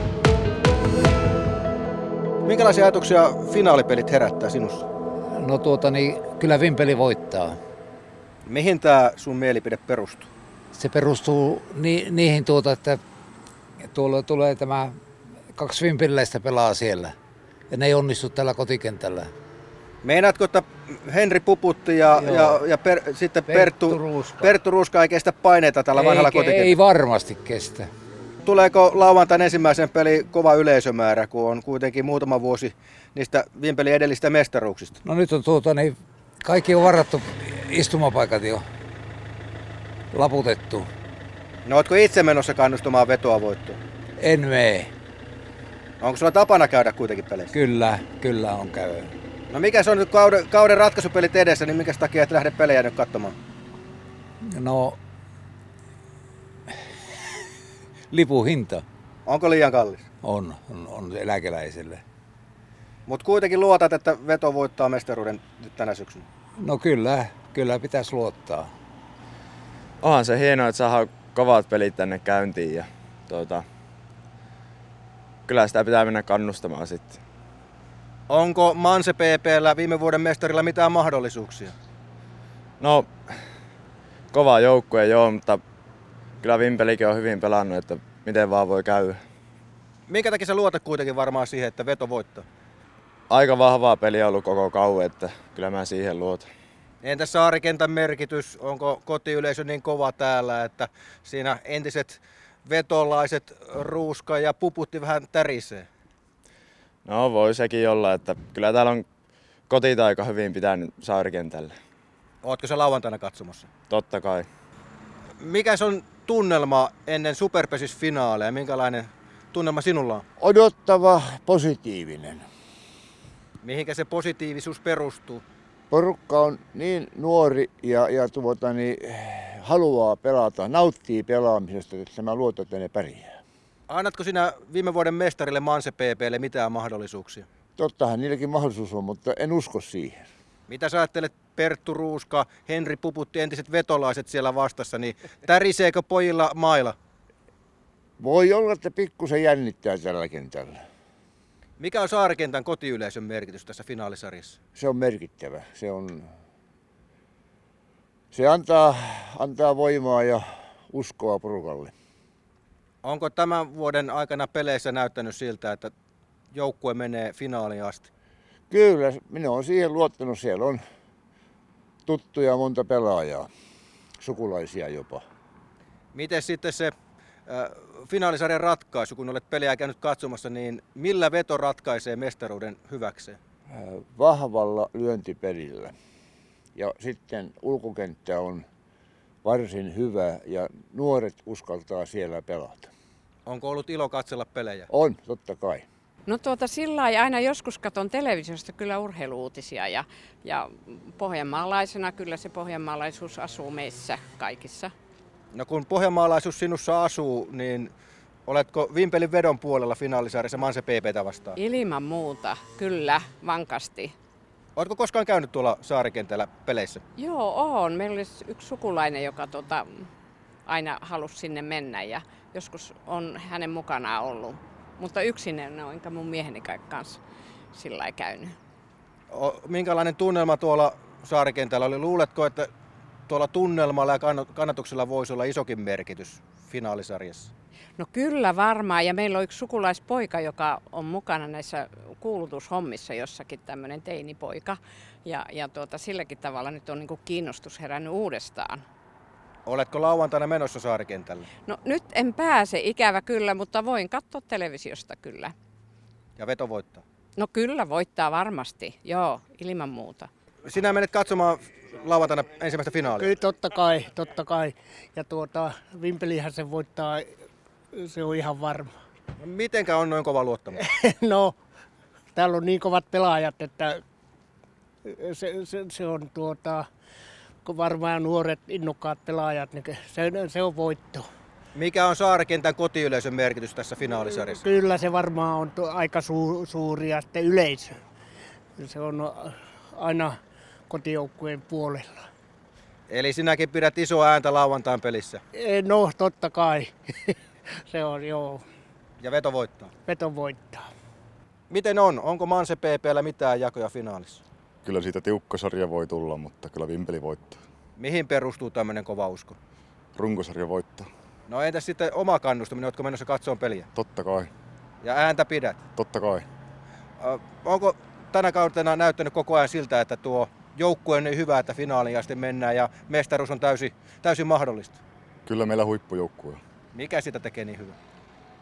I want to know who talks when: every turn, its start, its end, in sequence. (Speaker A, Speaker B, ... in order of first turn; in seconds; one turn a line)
Speaker A: 2.5-4.8
Speaker B: 5.4-7.6
Speaker A: 8.5-10.3
Speaker B: 10.8-13.0
Speaker B: 13.9-15.0
Speaker B: 15.6-17.1
Speaker B: 17.7-19.3
Speaker A: 20.0-26.7
Speaker B: 22.1-22.6
Speaker B: 23.5-24.5
Speaker B: 25.9-27.9
Speaker A: 28.4-35.0
Speaker B: 35.0-38.6
Speaker B: 40.1-40.9
Speaker A: 41.7-43.8
Speaker B: 44.2-44.9
Speaker A: 46.0-47.5
Speaker B: 47.5-49.1
Speaker A: 49.5-53.4
Speaker B: 54.5-55.0
Speaker B: 58.1-58.8
Speaker A: 59.3-60.0
Speaker B: 60.2-62.0
Speaker A: 63.1-66.2
Speaker B: 66.6-68.7
Speaker C: 70.0-73.7
Speaker C: 75.5-77.2
Speaker A: 78.3-81.7
Speaker C: 82.8-83.1
Speaker C: 84.3-85.6
Speaker C: 86.4-89.2
Speaker A: 90.1-92.4
Speaker C: 93.3-96.5
Speaker A: 97.0-105.9
Speaker C: 107.0-109.1
Speaker C: 109.7-111.7
Speaker A: 112.4-113.7
Speaker C: 113.9-114.5
Speaker A: 115.4-120.2
Speaker D: 120.4-122.4
Speaker A: 123.6-125.4
Speaker D: 125.9-133.3
Speaker A: 133.9-137.4
Speaker D: 137.8-140.2
Speaker A: 140.7-146.9
Speaker D: 148.2-150.8
Speaker A: 151.8-154.6
Speaker D: 154.8-156.3
Speaker D: 158.3-161.9
Speaker A: 163.0-165.9
Speaker A: 166.5-168.1
Speaker D: 168.7-170.8
Speaker D: 172.1-173.5
Speaker D: 174.2-175.2
Speaker A: 176.1-176.9
Speaker A: 177.5-183.4
Speaker D: 183.7-185.9
Speaker D: 186.8-188.7
Speaker D: 189.4-192.9
Speaker A: 193.5-194.9
Speaker D: 194.9-195.8
Speaker E: 196.3-204.9
Speaker A: 205.5-207.9
Speaker A: 208.5-211.6
Speaker E: 211.6-214.1
Speaker A: 214.8-217.0
Speaker E: 217.2-220.1
Speaker E: 220.7-227.2
Speaker E: 227.7-228.6
Speaker A: 229.3-232.7
Speaker A: 233.3-237.5
Speaker E: 238.0-248.8
Speaker A: 249.7-251.5
Speaker E: 251.7-255.5
Speaker A: 256.4-257.0
Speaker E: 257.4-260.3
Speaker A: 260.7-263.3
Speaker F: 263.2-267.3
Speaker F: 267.9-268.9
Speaker A: 269.4-270.8
Speaker F: 270.9-271.6
Speaker F: 272.4-274.0
Speaker F: 275.1-276.9
Speaker F: 277.6-281.3
Speaker A: 281.8-284.6
Speaker F: 284.5-288.0
Speaker F: 288.8-292.2
Speaker A: 293.1-295.4
Speaker F: 295.6-297.4
Speaker F: 297.9-298.6
Speaker A: 299.2-299.9
Speaker F: 300.1-300.9
Speaker A: 301.7-304.4
Speaker G: 304.9-307.6
Speaker A: 308.0-309.6
Speaker G: 310.2-311.1
Speaker A: 311.5-313.9
Speaker G: 313.9-314.5
Speaker A: 315.0-315.8
Speaker G: 316.0-316.5
Speaker A: 317.2-325.0
Speaker G: 325.5-326.6
Speaker A: 326.9-328.0